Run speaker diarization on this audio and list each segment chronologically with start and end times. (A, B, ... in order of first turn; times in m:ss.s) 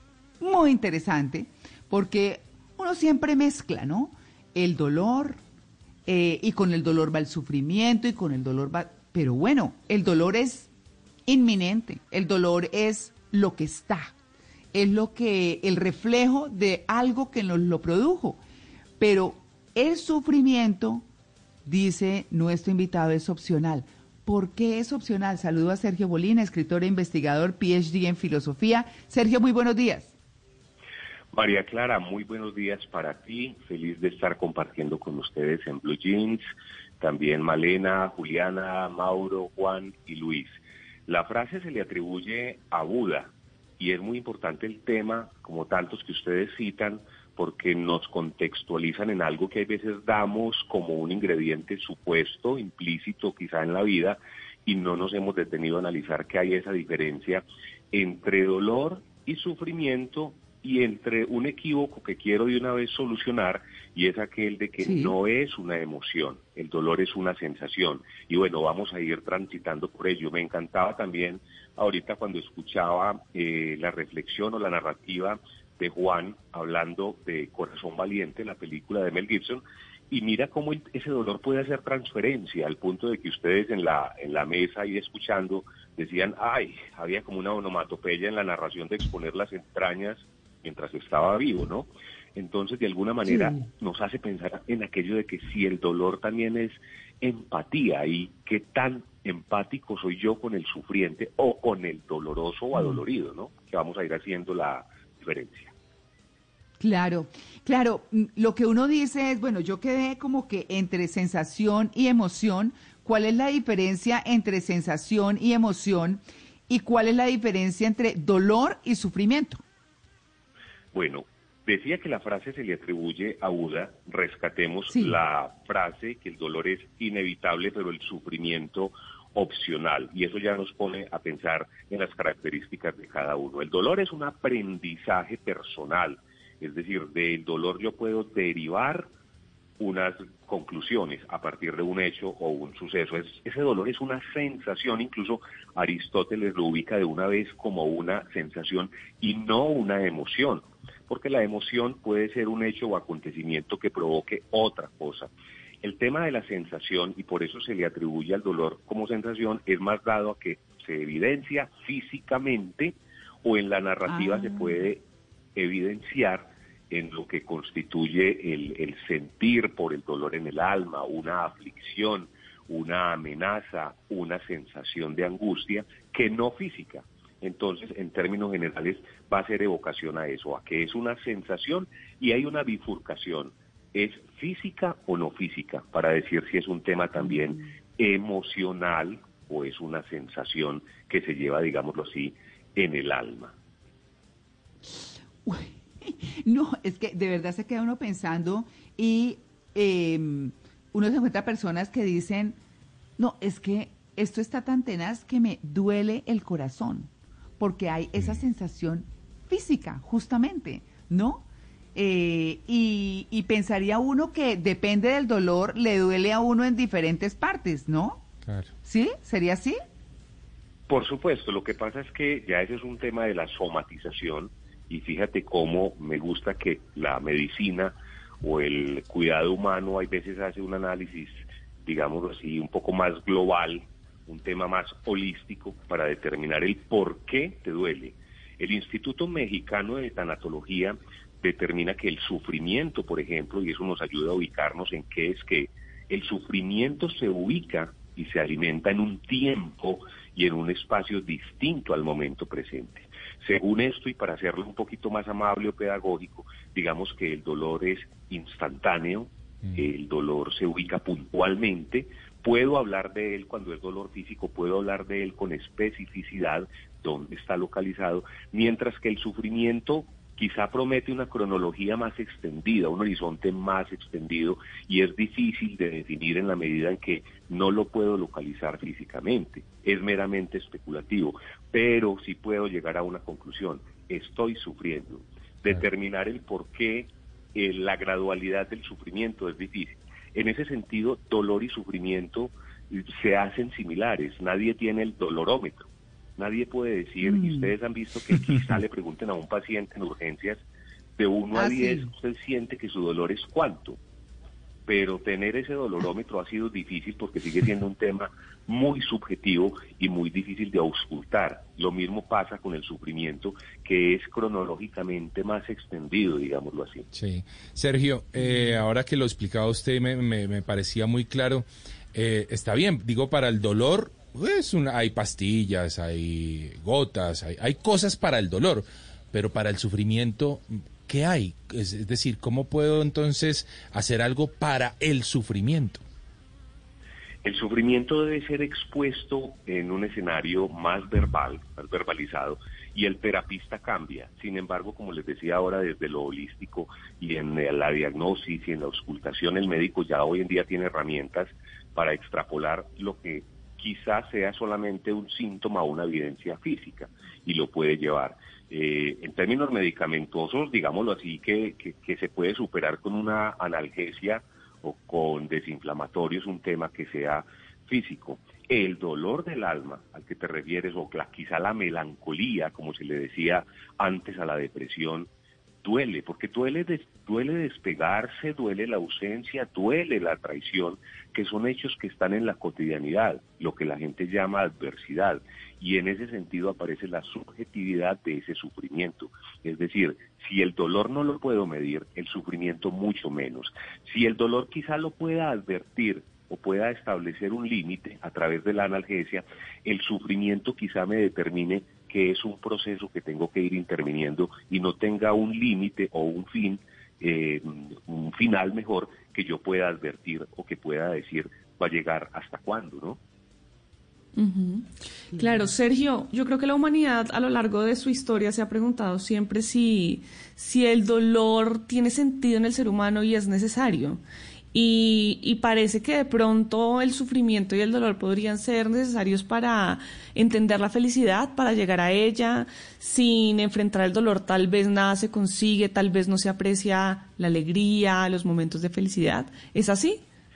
0:00.4-0:05.4 A
0:06.1-0:10.7 A
0:11.3-0:14.1 A
0:14.7-0:18.4 A
0:19.0-0:21.0 A
0:21.6-0:30.1 A
0:31.3-0:36.4 B
0:37.0-0:40.5 B
0:41.1-1:45.7 B
1:04.8-1:05.2 A
1:33.3-1:33.6 A
1:46.8-1:59.6 A
2:00.9-2:19.1 B
2:04.9-2:05.2 A
2:19.8-2:35.3 B
2:35.8-2:45.0 B
2:44.1-2:44.8 A
2:45.6-3:13.5 B
3:15.4-3:22.6 A
3:23.2-3:38.2 A
3:38.8-3:39.8 A
3:40.9-5:00.6 B
4:57.2-4:57.7 A
5:01.2-5:04.0 B
5:01.5-5:02.1 A
5:04.9-5:17.1 B
5:17.1-5:36.0 C
5:37.4-6:15.3 B
6:15.8-6:53.2 B
6:54.4-6:54.9 D
6:55.3-6:55.7 A
6:55.4-7:04.2 D
7:04.7-7:20.2 D